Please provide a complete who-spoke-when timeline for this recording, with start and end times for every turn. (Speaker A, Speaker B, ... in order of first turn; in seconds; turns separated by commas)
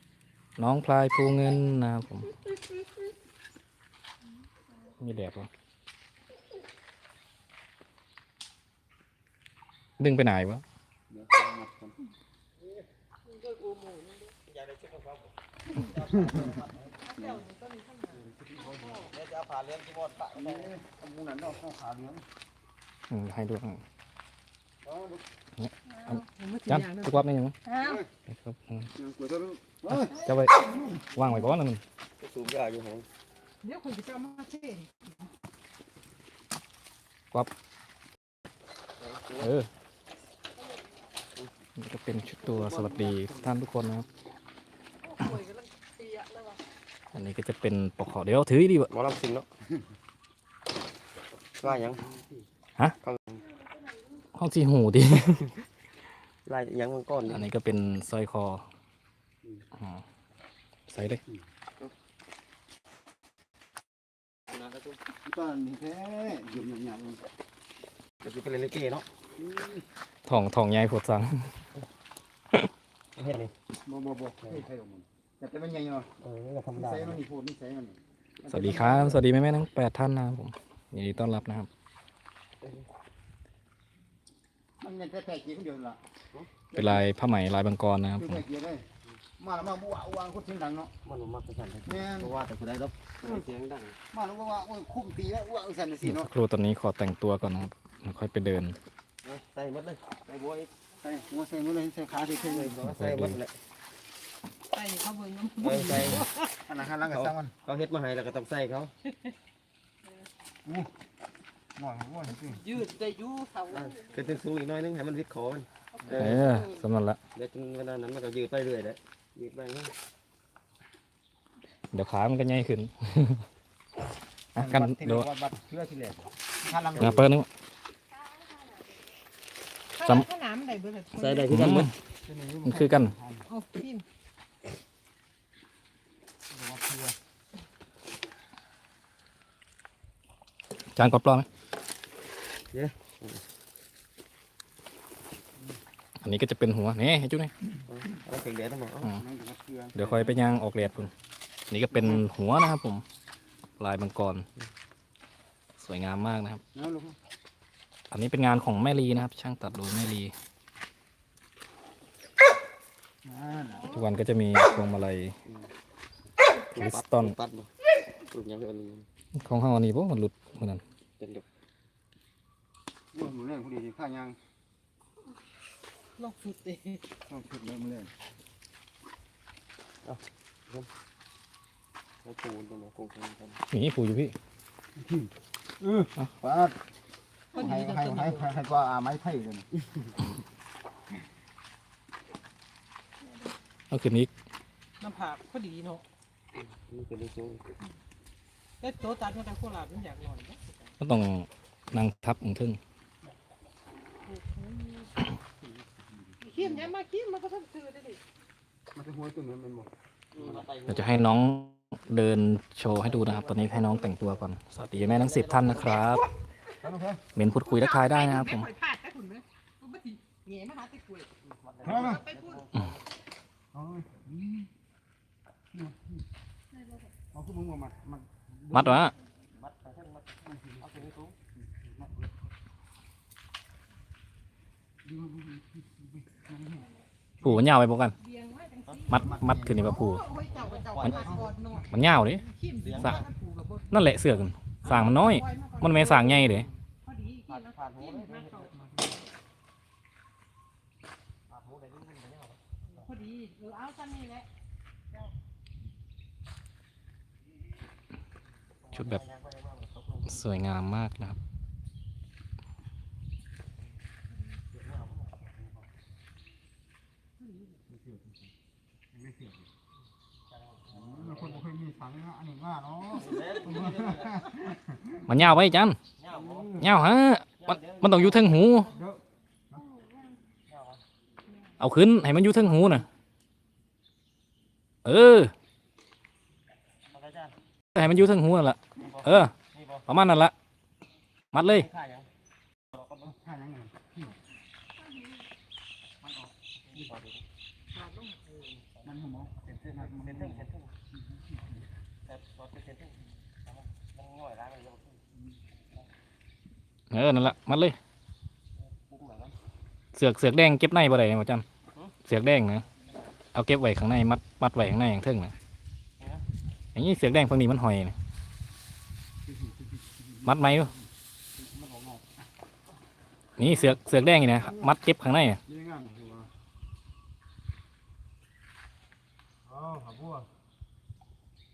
Speaker A: 0.6-2.3, Speaker A: 5.0-5.5, Speaker A: 10.0-10.6, Speaker B: 11.1-11.9, Speaker C: 13.2-14.3, Speaker D: 14.4-16.9, Speaker B: 16.1-16.5, Speaker C: 17.0-19.1, Speaker B: 18.2-19.0, Speaker D: 18.9-20.8, Speaker B: 20.4-22.2, Speaker A: 23.1-23.8, Speaker B: 24.8-25.2, Speaker A: 25.6-27.6, Speaker C: 25.9-28.0, Speaker B: 27.8-28.1, Speaker A: 28.3-28.9, Speaker B: 28.9-31.0, Speaker A: 29.9-30.6, Speaker A: 31.1-31.8, Speaker D: 32.2-33.0, Speaker C: 33.6-34.9, Speaker D: 39.0-39.5, Speaker A: 39.4-39.7, Speaker A: 41.8-44.0, Speaker B: 42.6-43.3, Speaker C: 45.1-46.6, Speaker A: 47.1-48.9, Speaker D: 48.9-49.5, Speaker D: 51.6-52.0, Speaker B: 51.6-52.5, Speaker D: 53.0-53.4, Speaker A: 54.3-55.5, Speaker D: 56.5-57.5, Speaker A: 57.3-58.6, Speaker A: 59.8-60.0, Speaker A: 60.9-61.2, Speaker D: 64.5-65.0, Speaker B: 65.2-67.2, Speaker D: 68.2-69.0, Speaker B: 69.4-69.8, Speaker A: 70.2-71.5, Speaker D: 73.2-73.5, Speaker B: 73.8-76.1, Speaker D: 76.2-77.2, Speaker B: 76.7-79.2, Speaker A: 78.5-81.7, Speaker B: 84.8-86.0, Speaker B: 86.7-87.1, Speaker A: 86.7-88.4, Speaker B: 88.2-88.8, Speaker B: 89.4-90.9, Speaker D: 91.0-94.0, Speaker B: 91.8-92.3, Speaker B: 94.1-96.3, Speaker A: 96.0-98.8, Speaker D: 99.2-100.7, Speaker B: 101.0-102.7, Speaker D: 102.4-103.5, Speaker A: 102.8-103.4, Speaker C: 104.7-106.5, Speaker D: 105.6-106.2, Speaker B: 106.7-107.5, Speaker D: 107.1-108.9, Speaker B: 110.6-110.9, Speaker B: 111.8-112.6, Speaker C: 112.4-114.2, Speaker D: 113.7-116.4, Speaker C: 116.0-116.8, Speaker A: 116.1-117.2, Speaker D: 117.3-119.9, Speaker A: 121.9-123.4, Speaker A: 124.5-125.3, Speaker B: 124.6-127.2, Speaker A: 127.0-127.5, Speaker C: 129.9-131.8, Speaker D: 131.1-131.9, Speaker A: 131.5-131.9, Speaker B: 132.2-133.4, Speaker A: 132.6-133.1, Speaker C: 133.5-134.0, Speaker B: 136.5-137.1, Speaker A: 140.9-141.5, Speaker D: 142.7-143.4, Speaker A: 146.2-147.5, Speaker D: 147.9-149.1, Speaker B: 149.1-150.3, Speaker A: 149.9-151.1, Speaker A: 151.7-153.0, Speaker A: 153.8-154.5, Speaker A: 155.8-156.6, Speaker B: 156.7-157.2, Speaker A: 158.1-160.3, Speaker B: 163.2-163.9, Speaker A: 163.9-165.3, Speaker D: 166.7-167.7, Speaker A: 166.7-167.3, Speaker D: 168.3-169.1, Speaker A: 169.3-170.8, Speaker D: 171.2-171.4, Speaker B: 173.1-174.3, Speaker C: 176.2-177.0, Speaker B: 177.3-178.1, Speaker D: 180.0-180.9, Speaker D: 182.2-183.6, Speaker A: 183.7-184.3, Speaker B: 185.0-185.3, Speaker B: 185.8-186.8, Speaker C: 187.5-188.5, Speaker B: 187.5-189.7, Speaker A: 193.9-194.3, Speaker C: 195.0-196.0, Speaker D: 196.6-197.6, Speaker C: 198.8-200.9, Speaker A: 201.0-202.8, Speaker C: 204.2-205.1, Speaker B: 205.6-206.4, Speaker C: 206.4-208.2, Speaker B: 208.9-210.7, Speaker D: 210.3-211.2, Speaker A: 210.9-216.2, Speaker D: 213.0-216.0, Speaker C: 215.9-216.3, Speaker B: 216.8-217.2, Speaker A: 217.3-218.7, Speaker C: 217.7-221.3, Speaker D: 221.4-223.0, Speaker B: 221.8-222.2, Speaker C: 221.8-222.6, Speaker B: 223.7-224.7, Speaker B: 225.7-226.2, Speaker B: 227.3-229.1, Speaker A: 228.7-229.1, Speaker D: 229.5-231.4, Speaker B: 230.4-232.3, Speaker B: 235.0-236.9, Speaker A: 237.4-238.1, Speaker C: 238.2-244.2, Speaker A: 239.1-240.2, Speaker B: 239.1-239.9, Speaker D: 240.5-241.5, Speaker B: 241.0-241.5, Speaker A: 241.9-243.2, Speaker D: 242.8-243.2, Speaker A: 243.9-246.7, Speaker C: 244.8-248.7, Speaker D: 247.5-248.7, Speaker B: 248.7-249.1, Speaker D: 251.5-252.6, Speaker C: 252.9-254.5, Speaker D: 258.8-260.4, Speaker A: 258.9-259.2, Speaker A: 260.2-261.4, Speaker D: 264.7-265.9, Speaker B: 269.1-269.7, Speaker D: 270.5-271.6, Speaker B: 270.9-275.2, Speaker D: 273.1-274.5, Speaker A: 275.3-276.0, Speaker D: 276.2-276.8, Speaker B: 276.3-276.9, Speaker A: 276.8-278.9, Speaker D: 277.6-278.6, Speaker B: 278.9-279.8, Speaker D: 280.6-281.0, Speaker A: 281.8-283.1, Speaker A: 285.0-285.5, Speaker D: 287.1-287.5, Speaker A: 287.9-289.5, Speaker D: 288.9-290.1, Speaker A: 290.1-290.5, Speaker A: 291.5-291.9, Speaker D: 291.5-292.3, Speaker D: 292.9-293.3, Speaker B: 293.2-294.3, Speaker D: 296.9-297.4, Speaker C: 297.9-298.8, Speaker B: 299.0-300.6, Speaker D: 299.6-300.9, Speaker D: 302.2-305.2, Speaker A: 307.1-308.0, Speaker D: 308.8-309.5, Speaker A: 310.1-311.6, Speaker A: 312.2-312.8, Speaker A: 313.5-315.5, Speaker D: 316.2-316.4, Speaker A: 316.9-318.1, Speaker B: 319.5-320.5, Speaker A: 320.4-320.9, Speaker B: 321.6-322.2, Speaker A: 323.6-325.6, Speaker B: 325.7-326.5, Speaker B: 329.6-330.5